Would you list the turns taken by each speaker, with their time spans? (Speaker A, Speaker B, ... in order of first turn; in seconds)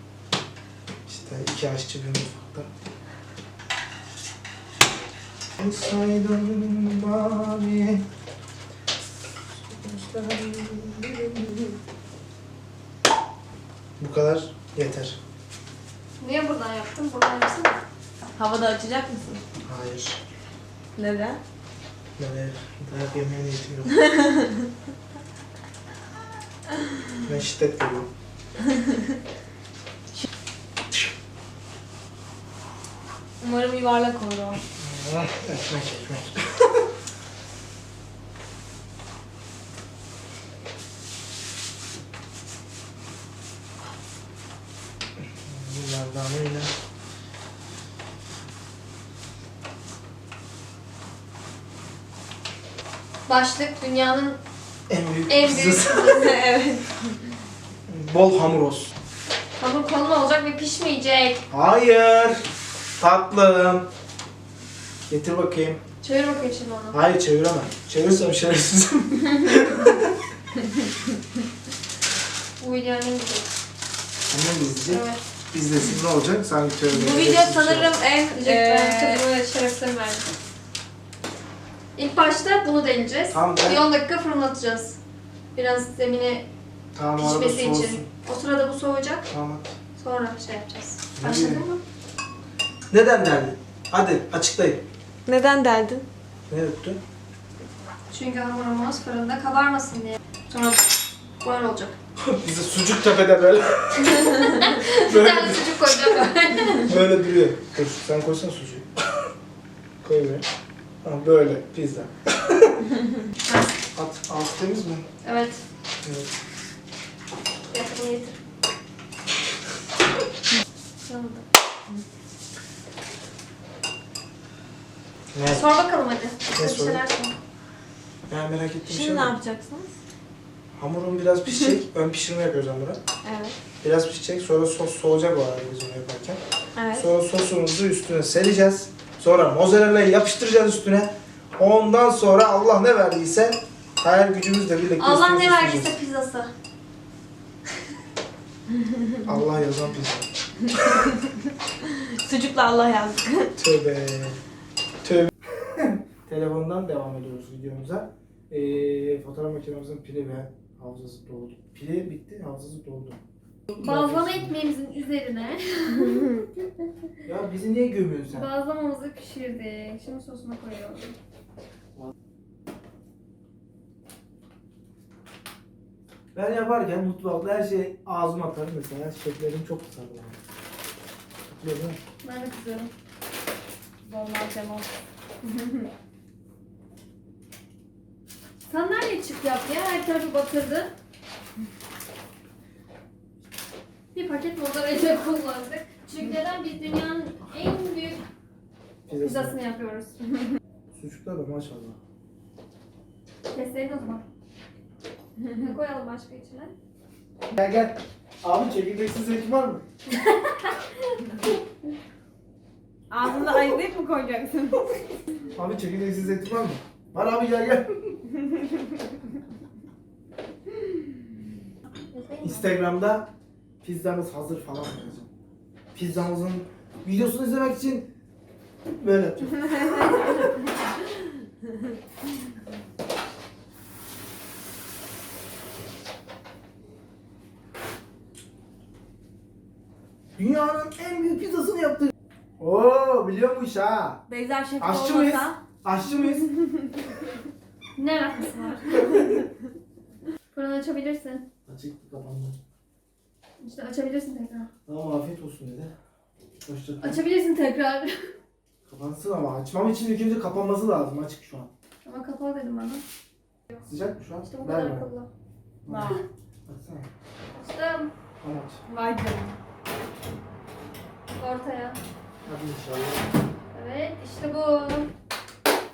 Speaker A: 1.1-2.7, 5.6-8.1, 9.7-11.5, 14.0-15.2, 19.6-20.2, 22.2-24.0, 27.3-28.1, 34.8-36.9, 45.4-46.7, 54.9-56.2, 57.9-58.9, 61.5-62.5, 63.0-63.9, 65.1-65.8, 66.9-70.2, 74.3-77.9, 83.3-83.8, 86.9-88.1, 89.3-89.7, 91.1-91.6, 92.9-94.8, 96.5-97.0, 102.2-106.2, 106.8-108.9, 110.0-110.5, 111.0-112.9, 113.9-115.1, 116.0-116.3, 125.3-125.7, 126.6-127.0, 128.3-129.3, 130.8-133.0, 133.8-136.4, 136.9-146.0, 149.2-150.3, 153.6-154.4, 155.0-164.5, 167.2-168.5, 176.3-180.4, 181.5-182.0, 199.1-199.6, 200.9-202.0, 207.5-209.8, 215.6-218.2, 222.4-223.3, 223.8-225.3, 225.9-228.1, 228.9-230.6, 240.4-244.2, 244.8-246.5, 251.7-252.6, 254.9-255.9, 256.6-257.2, 258.9-261.7, 263.9-265.1, 265.9-267.1, 268.4-268.8, 272.4-273.3
Speaker B: 16.2-17.8, 53.3-54.4, 55.3-56.4, 59.6-61.5, 66.0-67.0, 72.6-73.5, 74.9-75.2, 78.3-80.3, 82.0-85.0, 85.5-86.5, 87.2-89.3, 90.0-91.8, 98.1-100.9, 101.4-102.0, 104.1-107.0, 113.4-113.7, 115.2-115.6, 117.7-118.4, 121.1-121.5, 125.5-127.3, 145.0-146.5, 163.8-166.4, 168.3-171.2, 182.2-182.9, 188.7-190.9, 194.1-198.2, 199.2-200.2, 203.5-204.2, 205.5-206.7, 210.1-211.2, 222.1-222.6, 248.0-249.0, 250.5-251.5, 253.6-254.7, 257.0-258.3, 262.1-263.0, 264.5-265.3, 267.5-268.1, 271.4-272.0, 273.7-275.1
Speaker C: 18.4-19.4, 21.0-21.4, 24.0-24.7, 28.7-29.0, 33.4-34.6, 56.0-57.1, 76.9-79.2, 95.3-96.0, 128.9-129.9, 133.2-133.6, 136.8-137.1, 150.7-153.5, 166.0-166.4, 184.0-184.9, 213.1-214.9, 244.3-245.5, 248.6-249.4, 265.9-266.2, 268.9-269.6